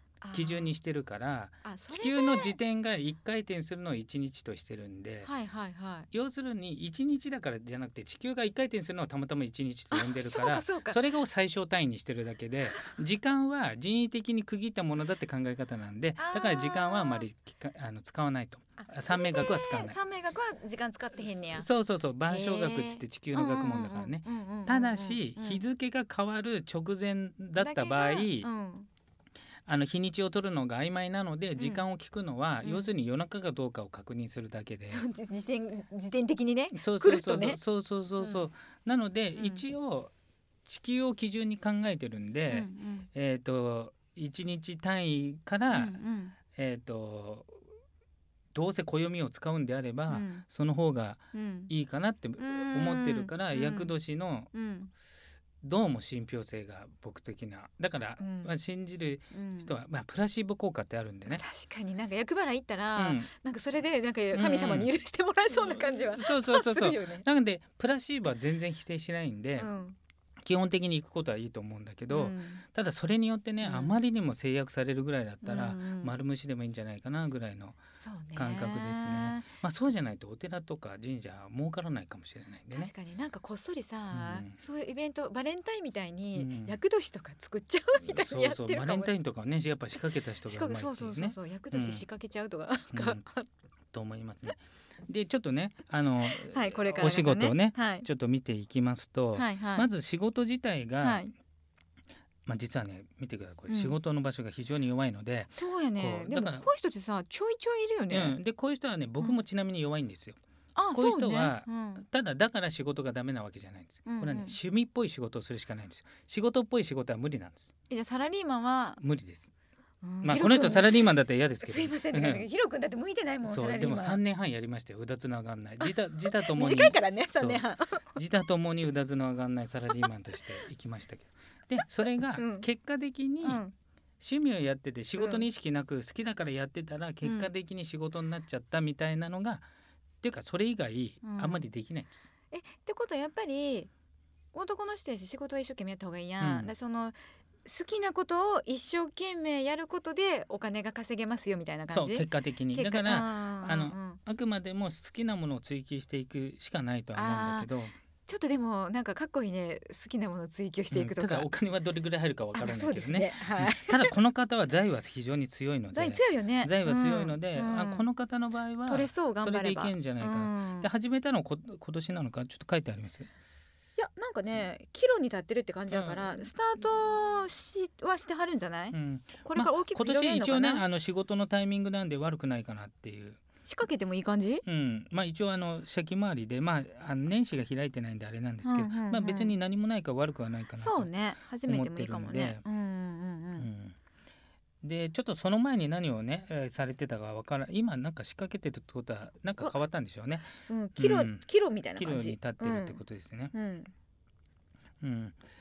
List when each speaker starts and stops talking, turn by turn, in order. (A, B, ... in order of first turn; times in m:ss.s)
0:00.2-0:00.7 A
0:00.3-0:05.3 B
0:01.6-0:02.6 A
0:05.2-0:06.1 A
0:06.1-0:20.0 B
0:09.9-0:11.0 A
0:16.2-0:17.3 A
0:18.8-0:21.7 A
0:21.2-0:28.5 B
0:22.3-0:25.6 A
0:27.6-0:28.9 A
0:29.7-0:35.0 B
0:31.6-0:31.8 A
0:32.6-0:32.9 A
0:34.9-0:37.6 A
0:36.7-0:40.1 B
0:38.2-0:38.5 A
0:39.4-0:39.6 A
0:40.7-0:46.0 B
0:42.5-0:43.1 A
0:45.7-0:46.4 A
0:46.5-0:47.6 B
0:48.5-0:54.5 B
0:50.1-0:50.4 A
0:51.3-0:51.7 A
0:52.4-0:53.9 A
0:54.5-0:54.9 A
0:55.6-1:01.4 B
0:58.2-0:58.5 A
0:59.3-0:59.7 A
1:01.3-1:07.2 A
1:03.0-1:03.3 B
1:04.3-1:04.9 B
1:05.5-1:09.7 B
1:09.6-1:10.0 A
1:10.4-1:17.8 B
1:12.1-1:12.6 A
1:13.6-1:14.0 A
1:15.4-1:16.1 A
1:18.0-1:19.5 A
1:18.4-1:22.9 B
1:22.7-1:29.1 A
1:24.1-1:24.6 B
1:26.4-1:26.8 B
1:28.0-1:32.0 B
1:30.5-1:33.5 A
1:32.9-1:33.2 B
1:33.9-1:41.2 B
1:36.3-1:38.1 A
1:39.3-1:39.9 A
1:41.0-1:41.3 A
1:42.5-1:46.7 B
1:43.7-1:44.0 A
1:45.5-1:48.4 A
1:48.1-1:50.4 B
1:50.8-1:52.0 A
1:50.9-1:57.7 B
1:54.1-1:54.6 A
1:57.9-1:59.0 A
1:59.0-1:59.5 B
2:00.0-2:01.1 A
2:00.2-2:02.5 B
2:01.6-2:04.2 A
2:03.4-2:13.6 B
2:05.8-2:08.2 A
2:12.3-2:12.7 A
2:13.4-2:13.7 A
2:14.2-2:19.7 B
2:15.2-2:15.4 A
2:17.2-2:17.5 A
2:20.2-2:22.3 B
2:21.2-2:21.6 A
2:22.5-2:23.9 A
2:24.5-2:34.2 A
2:26.4-2:26.7 B
2:31.9-2:38.0 B
2:37.2-2:37.7 A
2:38.3-2:41.5 A
2:40.9-2:53.3 B
2:42.5-2:44.2 A
2:45.9-2:48.1 A
2:48.8-2:50.9 A
2:54.0-3:00.8 A
2:55.9-2:56.5 B
2:58.9-3:03.4 B
3:03.7-3:04.6 A
3:04.6-3:11.1 B
3:08.6-3:09.5 A
3:10.8-3:13.7 A
3:11.7-3:12.6 B
3:13.6-3:14.0 B
3:14.8-3:23.5 B
3:20.7-3:23.0 A
3:23.5-3:23.9 A
3:25.0-3:25.4 B